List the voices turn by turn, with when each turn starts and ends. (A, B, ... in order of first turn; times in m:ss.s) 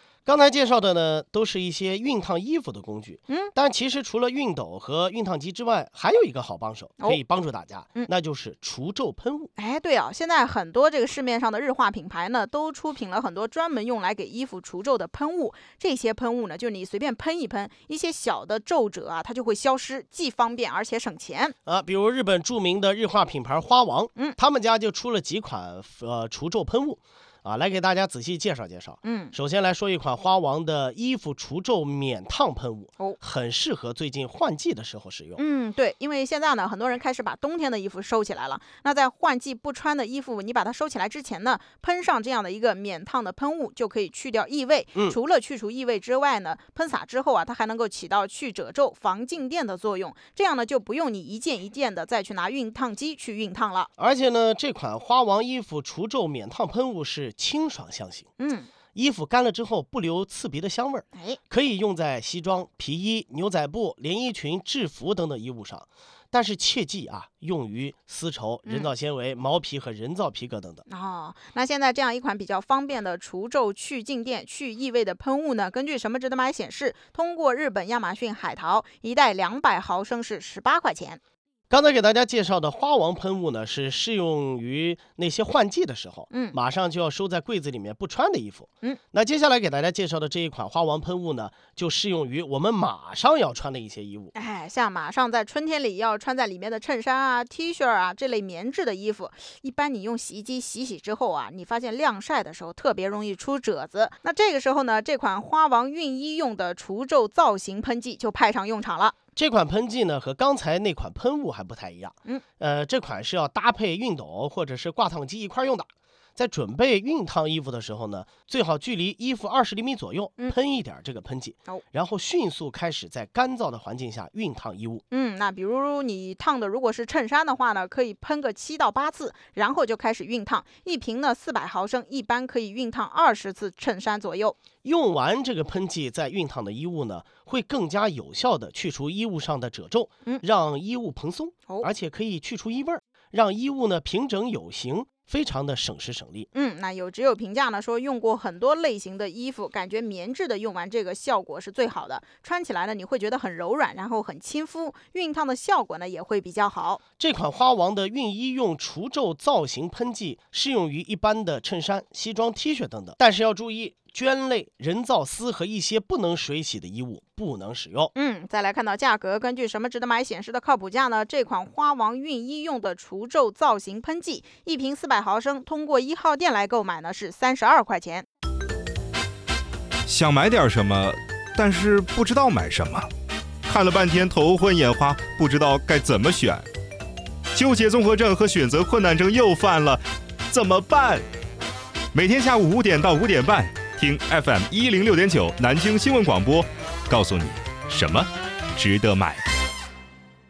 0:00.2-0:09.5 A
0:09.6-0:21.5 B
0:21.6-0:35.4 A
0:29.0-0:29.3 B
0:35.4-0:53.9 B
0:54.0-0:58.3 A
0:58.4-0:58.7 B
0:58.9-1:10.8 A
1:01.1-1:01.4 B
1:08.6-1:08.9 B
1:10.9-1:21.2 B
1:21.7-1:34.3 A
1:26.3-1:26.6 B
1:34.3-1:49.1 B
1:49.3-2:05.0 A
2:05.1-2:14.6 B
2:14.8-2:26.5 A
2:26.5-2:37.0 B
2:37.2-2:48.1 A
2:48.1-2:58.2 B
3:00.0-3:03.1 C
3:03.6-3:06.7 C
3:07.5-3:11.2 C
3:12.1-3:19.4 C